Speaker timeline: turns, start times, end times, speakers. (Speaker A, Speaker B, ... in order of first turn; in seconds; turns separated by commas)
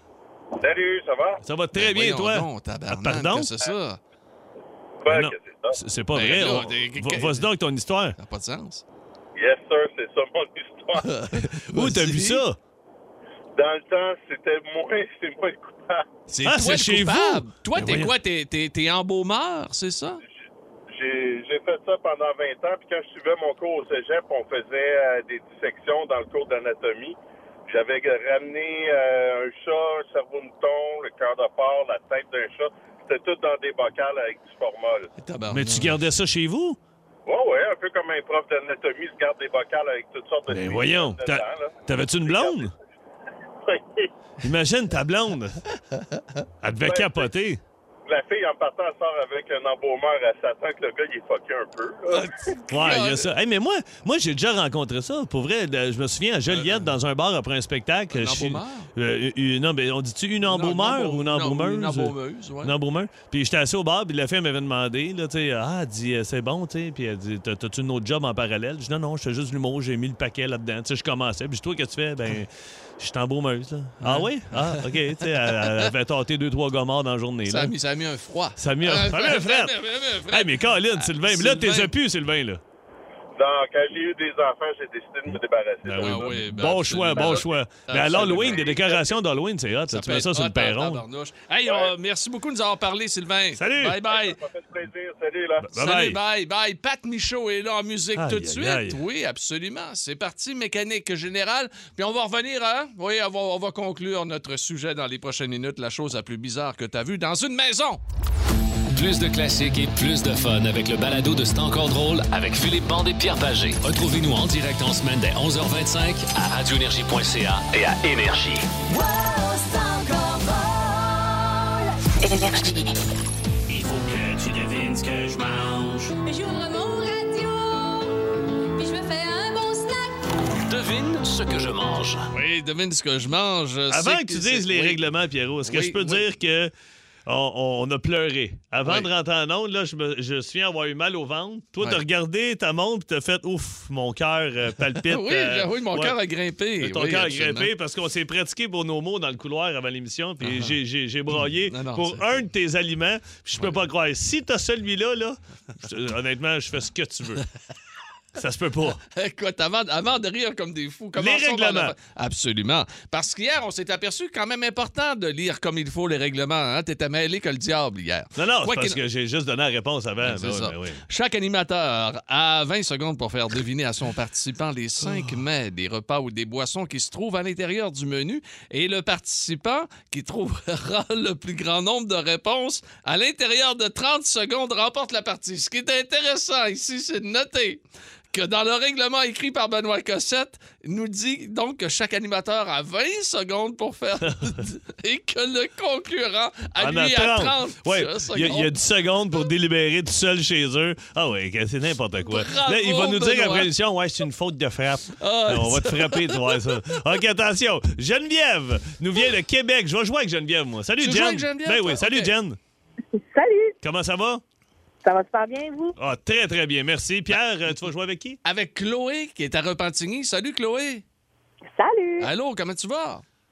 Speaker A: 0.6-1.4, Speaker B: 1.4-3.5, Speaker C: 1.7-4.0, Speaker A: 5.0-5.8, Speaker B: 5.1-8.2, Speaker C: 6.1-7.5, Speaker C: 8.2-8.8, Speaker A: 9.3-11.1, Speaker C: 11.0-12.4, Speaker B: 11.3-12.6, Speaker A: 13.6-16.0, Speaker C: 16.3-20.2, Speaker B: 16.4-18.1, Speaker A: 20.9-35.1, Speaker C: 35.2-36.0, Speaker B: 35.5-36.8, Speaker A: 37.2-42.6, Speaker B: 40.5-42.7, Speaker A: 43.6-44.0, Speaker B: 44.4-45.6, Speaker B: 46.6-47.6, Speaker A: 46.8-47.3, Speaker A: 48.1-52.3, Speaker C: 52.1-53.3, Speaker B: 52.7-77.7, Speaker C: 56.5-56.9, Speaker C: 58.1-58.9, Speaker C: 60.5-62.7, Speaker C: 74.0-75.9, Speaker C: 77.5-81.9, Speaker B: 78.6-82.6, Speaker A: 83.4-86.3, Speaker B: 85.8-91.0, Speaker C: 85.9-89.0, Speaker A: 88.4-89.0, Speaker C: 89.9-94.4, Speaker A: 91.6-91.9, Speaker B: 93.6-94.0, Speaker A: 94.1-95.7, Speaker B: 95.6-96.2, Speaker C: 95.7-108.0, Speaker B: 98.1-99.0, Speaker D: 108.9-118.7, Speaker E: 118.8-122.9, Speaker D: 123.7-126.1, Speaker F: 126.2-128.1, Speaker F: 128.8-130.1, Speaker D: 130.6-132.3, Speaker C: 132.3-135.0, Speaker B: 133.9-136.7, Speaker C: 135.6-136.3, Speaker B: 137.2-146.2, Speaker C: 138.8-139.1, Speaker C: 145.0-147.7, Speaker B: 146.8-157.4, Speaker C: 150.4-150.7, Speaker C: 151.3-152.4, Speaker B: 158.3-159.0, Speaker C: 159.1-169.0, Speaker B: 161.2-161.9, Speaker B: 168.3-171.0, Speaker C: 170.2-187.8, Speaker B: 175.0-175.3, Speaker C: 188.3-198.8, Speaker B: 196.8-212.6, Speaker C: 202.2-203.7, Speaker C: 205.2-206.9, Speaker C: 211.0-212.3, Speaker G: 213.3-213.7, Speaker B: 213.8-214.4, Speaker G: 215.0-215.9, Speaker B: 216.0-218.4, Speaker C: 218.4-221.0, Speaker G: 221.7-222.3, Speaker C: 222.2-223.2